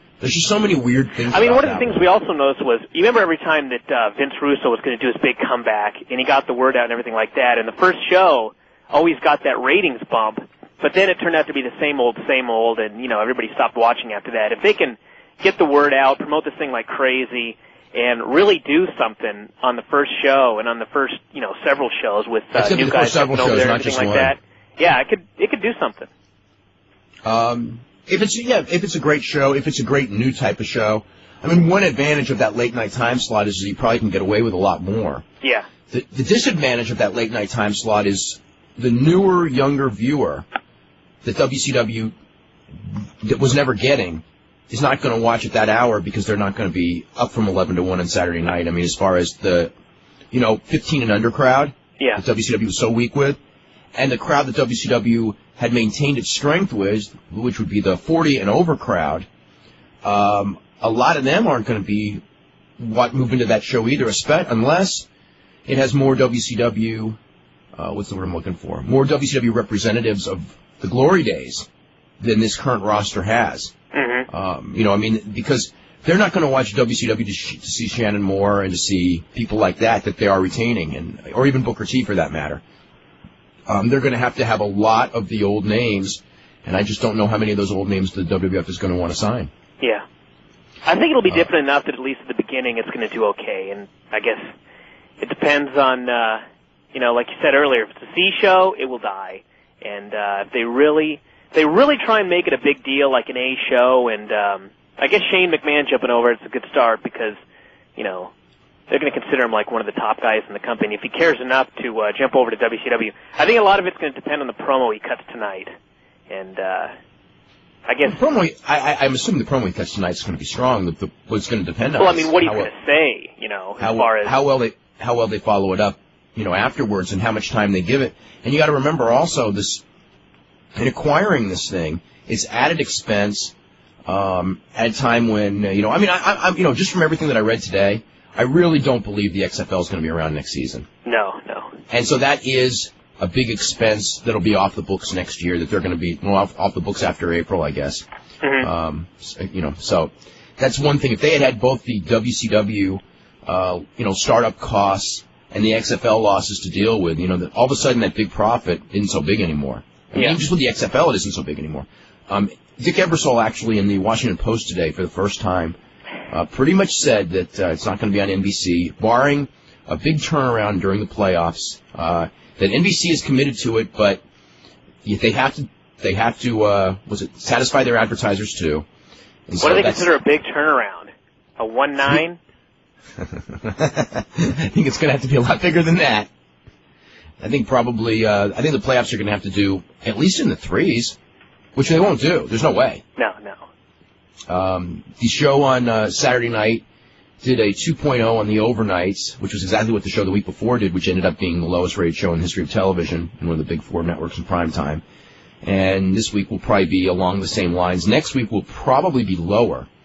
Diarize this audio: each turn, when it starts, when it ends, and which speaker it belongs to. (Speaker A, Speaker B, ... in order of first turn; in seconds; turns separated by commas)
Speaker A: 0.2-2.0, Speaker B: 1.3-26.1, Speaker A: 22.5-24.3, Speaker A: 27.2-35.2, Speaker A: 35.9-40.5, Speaker A: 41.2-42.1, Speaker A: 43.2-49.7, Speaker A: 50.3-53.4, Speaker A: 53.9-59.3, Speaker A: 60.0-62.2, Speaker A: 62.8-65.1, Speaker A: 65.7-67.2, Speaker A: 67.7-71.7, Speaker A: 72.2-73.7, Speaker B: 73.9-74.3, Speaker A: 74.3-82.6, Speaker A: 83.7-89.5, Speaker B: 90.8-94.5, Speaker B: 95.2-96.4, Speaker B: 96.9-107.4, Speaker B: 108.0-108.3, Speaker B: 108.9-115.7, Speaker B: 116.3-116.9, Speaker B: 117.9-118.2, Speaker A: 118.0-122.7, Speaker B: 122.0-124.3, Speaker A: 123.8-129.8, Speaker A: 130.7-133.5, Speaker A: 134.1-140.9, Speaker B: 141.0-141.7, Speaker A: 141.9-148.1, Speaker B: 148.4-148.7, Speaker A: 148.6-165.8, Speaker A: 166.3-174.2, Speaker A: 175.0-178.8, Speaker A: 179.5-180.1, Speaker B: 179.6-182.4, Speaker A: 183.2-186.3, Speaker A: 187.4-191.2, Speaker A: 191.7-193.0, Speaker B: 193.2-193.6, Speaker A: 194.5-196.8, Speaker A: 197.4-205.0, Speaker A: 205.6-209.9